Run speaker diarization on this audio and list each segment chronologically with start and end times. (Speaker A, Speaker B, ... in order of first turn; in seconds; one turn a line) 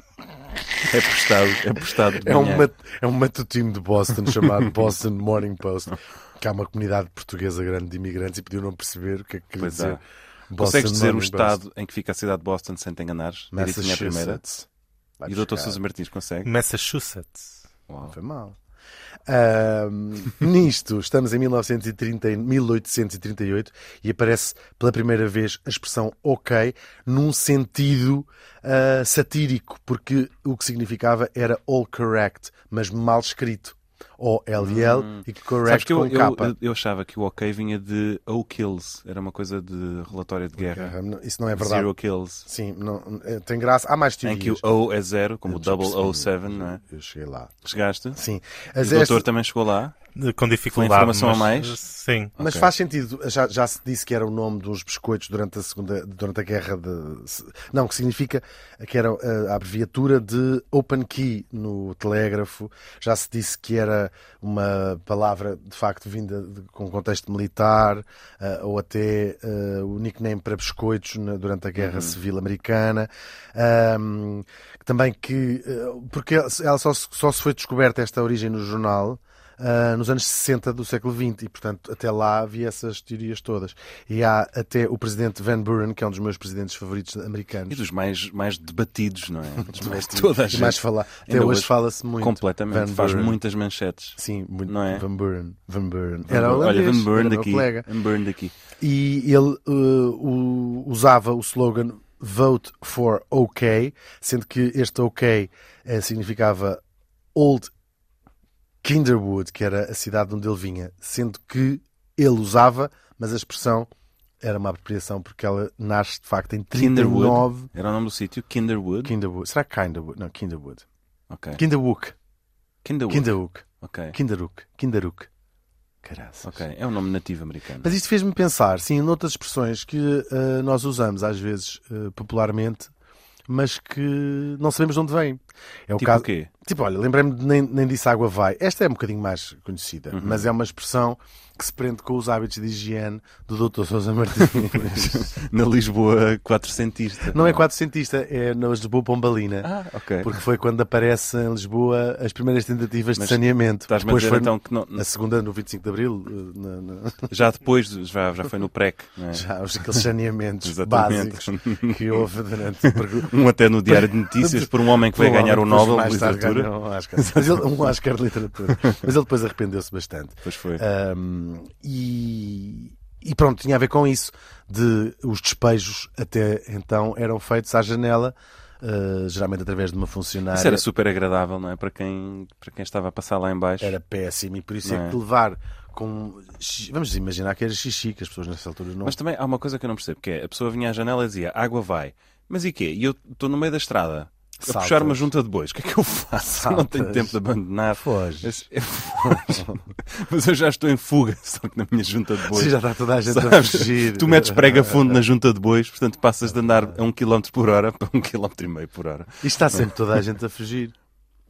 Speaker A: 0.8-2.7
Speaker B: 1.8-11.6
Speaker A: 9.6-10.0
Speaker A: 10.6-14.4
Speaker B: 13.5-14.7
Speaker B: 15.2-15.8
Speaker A: 15.3-16.5
Speaker C: 16.4-17.6
Speaker A: 17.9-18.2
Speaker B: 18.1-18.6
Speaker B: 19.3-36.5
Speaker A: 34.6-40.9
Speaker B: 40.6-41.9
Speaker A: 41.5-42.5
Speaker B: 42.5-44.6
Speaker A: 44.2-46.8
Speaker B: 45.5-47.5
Speaker A: 47.6-48.2
Speaker B: 48.1-49.3
Speaker A: 48.8-49.9
Speaker C: 50.2-52.4
Speaker A: 50.7-51.8
Speaker B: 52.4-87.8
Speaker A: 52.4-52.7
Speaker A: 71.8-72.2
Speaker A: 87.7-95.0
Speaker B: 89.6-93.4
Speaker B: 94.2-97.9
Speaker A: 96.3-98.6
Speaker B: 98.8-106.8
Speaker B: 107.3-107.7
Speaker B: 108.8-113.9
Speaker B: 114.4-117.7
Speaker A: 116.7-119.2
Speaker B: 119.0-120.9
Speaker A: 121.3-121.6
Speaker B: 121.6-122.2
Speaker A: 122.8-124.2
Speaker B: 123.1-125.3
Speaker B: 126.0-126.6
Speaker A: 126.4-127.9
Speaker B: 127.8-132.9
Speaker B: 133.5-145.3
Speaker A: 136.0-136.5
Speaker A: 140.1-140.5
Speaker A: 144.4-147.6
Speaker B: 147.3-157.3
Speaker A: 149.6-150.4
Speaker A: 153.2-155.1
Speaker A: 157.3-159.5
Speaker B: 159.3-163.3
Speaker A: 160.6-162.3
Speaker A: 162.8-167.7
Speaker B: 163.9-180.8
Speaker A: 168.7-169.1
Speaker A: 170.4-170.8
Speaker A: 180.5-184.0
Speaker B: 183.8-189.2
Speaker A: 184.8-185.2
Speaker A: 189.0-209.9
Speaker B: 194.6-195.3
Speaker B: 196.4-197.4
Speaker B: 198.0-198.7
Speaker B: 199.2-199.8
Speaker B: 202.5-205.2
Speaker B: 206.6-207.0
Speaker B: 209.4-210.9